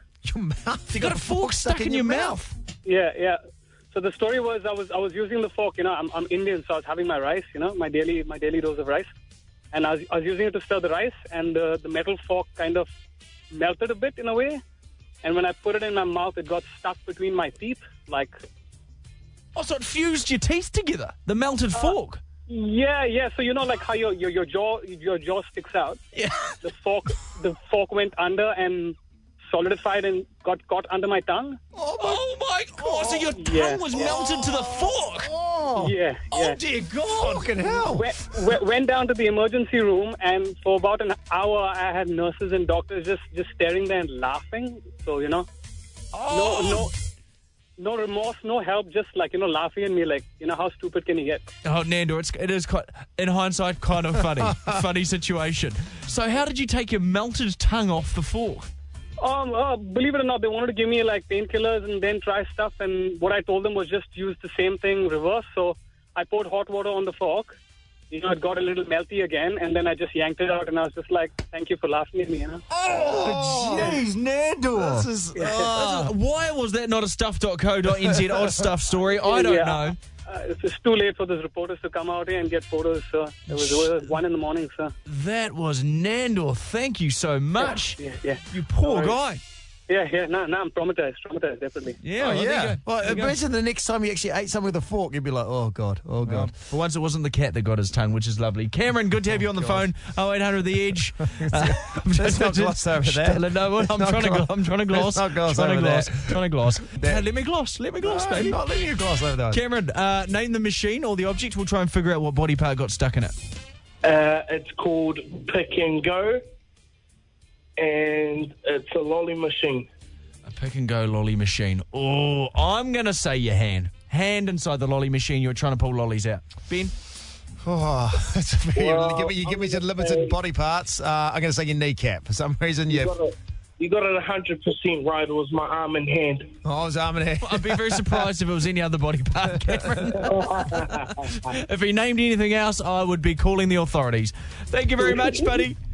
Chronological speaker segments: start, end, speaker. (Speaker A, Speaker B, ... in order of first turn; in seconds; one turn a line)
Speaker A: 0.2-2.4
Speaker B: 0.9-2.5
Speaker C: 2.9-3.4
Speaker C: 3.9-9.1
Speaker C: 9.7-12.9
Speaker C: 13.5-14.6
Speaker C: 15.2-18.4
Speaker B: 19.5-22.2
Speaker C: 22.5-26.0
Speaker B: 26.1-26.6
Speaker C: 26.6-28.9
Speaker C: 29.5-31.6
Speaker A: 31.7-32.2
Speaker B: 32.0-35.3
Speaker A: 32.8-33.4
Speaker C: 33.4-33.9
Speaker A: 33.9-38.3
Speaker C: 35.8-36.6
Speaker B: 36.3-37.5
Speaker C: 37.9-45.5
Speaker B: 46.1-46.9
Speaker C: 46.3-46.9
Speaker C: 47.8-51.5
Speaker B: 51.6-58.7
Speaker A: 54.4-54.8
Speaker C: 59.2-67.5
Speaker C: 68.1-72.6
Speaker A: 72.7-74.0
Speaker B: 72.8-80.0
Speaker A: 74.7-76.1
Speaker A: 78.0-78.6
Speaker C: 79.2-84.9
Speaker B: 85.0-88.0
Speaker C: 87.6-89.2
Speaker B: 88.5-89.4
Speaker C: 89.9-92.0
Speaker B: 92.0-93.4
Speaker A: 92.2-96.5
Speaker B: 96.2-108.6
Speaker A: 99.3-99.8
Speaker A: 101.2-107.2
Speaker A: 108.0-109.6
Speaker B: 109.5-113.3
Speaker D: 114.0-116.4
Speaker D: 117.8-119.9
Speaker B: 120.4-126.9
Speaker A: 127.6-133.1
Speaker D: 128.7-130.4
Speaker D: 132.9-136.5
Speaker A: 136.6-138.3
Speaker B: 137.4-145.8
Speaker D: 140.2-141.5
Speaker D: 145.0-145.7